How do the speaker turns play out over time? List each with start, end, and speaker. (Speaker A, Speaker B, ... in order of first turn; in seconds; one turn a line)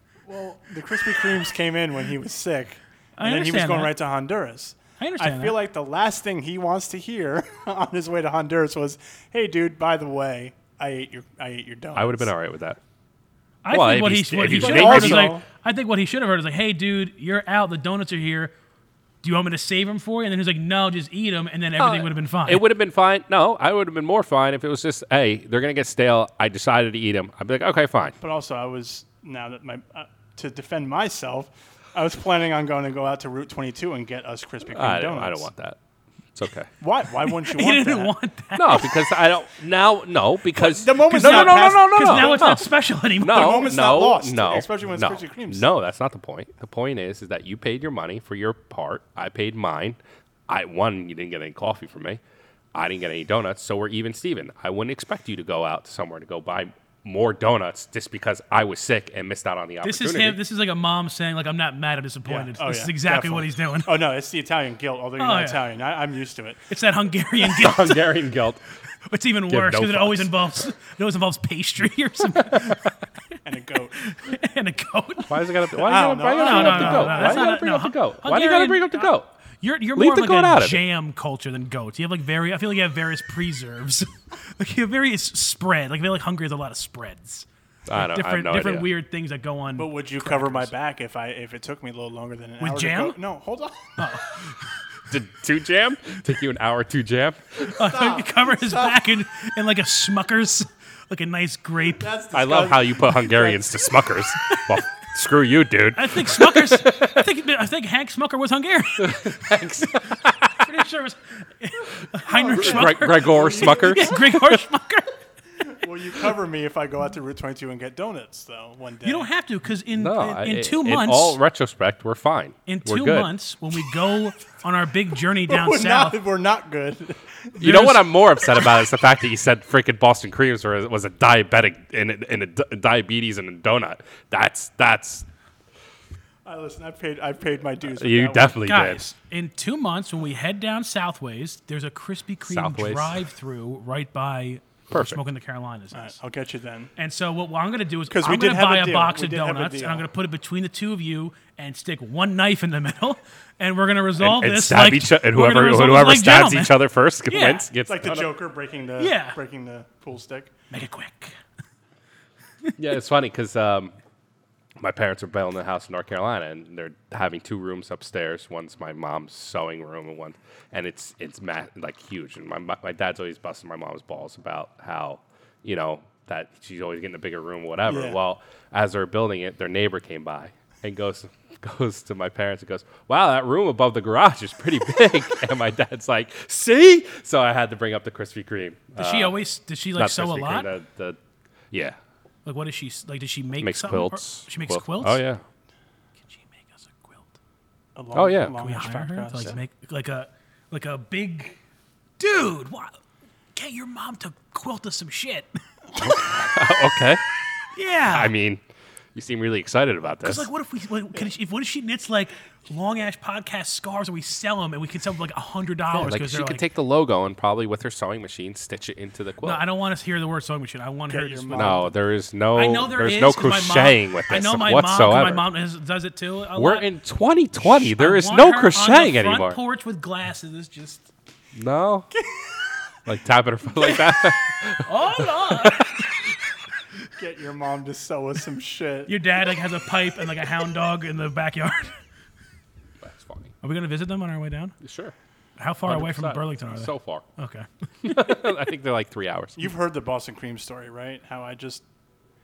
Speaker A: 0.3-12.3
Speaker B: 3.2-3.9
Speaker B: 5.0-5.6
Speaker C: 11.9-12.8
Speaker B: 13.7-18.5
Speaker C: 13.7-15.4
Speaker A: 14.4-15.4
Speaker B: 19.2-22.7
Speaker C: 21.8-28.2
Speaker A: 28.2-35.5
Speaker C: 34.7-35.8
Speaker C: 36.4-36.7
Speaker A: 36.8-38.1
Speaker B: 37.2-38.9
Speaker C: 38.6-42.7
Speaker A: 40.5-42.6
Speaker B: 41.1-43.7
Speaker A: 43.2-45.7
Speaker C: 43.2-52.2
Speaker C: 52.7-60.4
Speaker B: 59.8-63.9
Speaker A: 62.2-66.7
Speaker B: 65.2-65.6
Speaker B: 66.7-68.2
Speaker C: 67.4-68.6
Speaker B: 69.0-73.0
Speaker C: 69.5-70.5
Speaker C: 72.4-72.9
Speaker A: 73.4-74.0
Speaker B: 74.0-75.8
Speaker C: 75.3-79.3
Speaker A: 75.8-77.5
Speaker B: 76.3-90.7
Speaker C: 80.0-80.8
Speaker C: 87.9-88.9
Speaker A: 89.8-94.1
Speaker B: 92.6-93.2
Speaker B: 94.0-94.7
Speaker C: 95.1-98.0
Speaker B: 97.6-102.1
Speaker A: 97.8-99.0
Speaker A: 101.9-104.0
Speaker C: 102.3-107.2
Speaker B: 104.5-104.8
Speaker B: 105.9-115.2
Speaker C: 109.0-110.7
Speaker A: 112.3-114.2
Speaker C: 112.5-114.6
Speaker A: 115.6-119.3
Speaker B: 119.0-121.4
Speaker C: 119.9-123.3
Speaker B: 122.7-126.2
Speaker A: 125.5-128.0
Speaker C: 127.6-135.3
Speaker B: 127.7-127.9
Speaker A: 136.4-138.7
Speaker C: 137.8-139.0
Speaker B: 138.6-146.2
Speaker C: 142.4-143.2
Speaker C: 144.9-145.2
Speaker A: 145.9-146.9
Speaker B: 147.0-157.7
Speaker A: 148.1-150.1
Speaker C: 154.2-158.3
Speaker A: 157.9-160.5
Speaker B: 159.0-159.4
Speaker B: 160.7-161.4
Speaker C: 162.8-163.9
Speaker C: 164.8-189.4
Speaker A: 177.9-178.2
Speaker B: 189.0-190.7
Speaker C: 190.0-191.2
Speaker C: 191.7-192.0
Speaker B: 192.5-195.2
Speaker C: 193.6-195.4
Speaker B: 196.3-197.3
Speaker A: 198.0-199.6
Speaker C: 198.1-198.6
Speaker B: 198.5-201.6
Speaker B: 202.2-202.9
Speaker B: 203.6-206.6
Speaker C: 206.0-207.2
Speaker B: 207.7-208.3
Speaker C: 208.1-210.5
Speaker B: 210.2-216.6
Speaker C: 215.9-219.6
Speaker B: 219.4-221.9
Speaker A: 221.1-221.9
Speaker C: 221.5-225.5
Speaker B: 222.5-226.9
Speaker C: 226.6-229.6
Speaker B: 227.6-231.1
Speaker C: 231.6-232.1
Speaker C: 233.1-236.1
Speaker B: 233.8-236.1
Speaker A: 237.2-239.1
Speaker B: 239.1-242.0
Speaker C: 243.0-243.5
Speaker B: 243.6-244.8
Speaker C: 244.8-245.2
Speaker B: 245.6-248.4
Speaker C: 245.8-247.3
Speaker C: 248.0-249.7
Speaker A: 249.6-251.8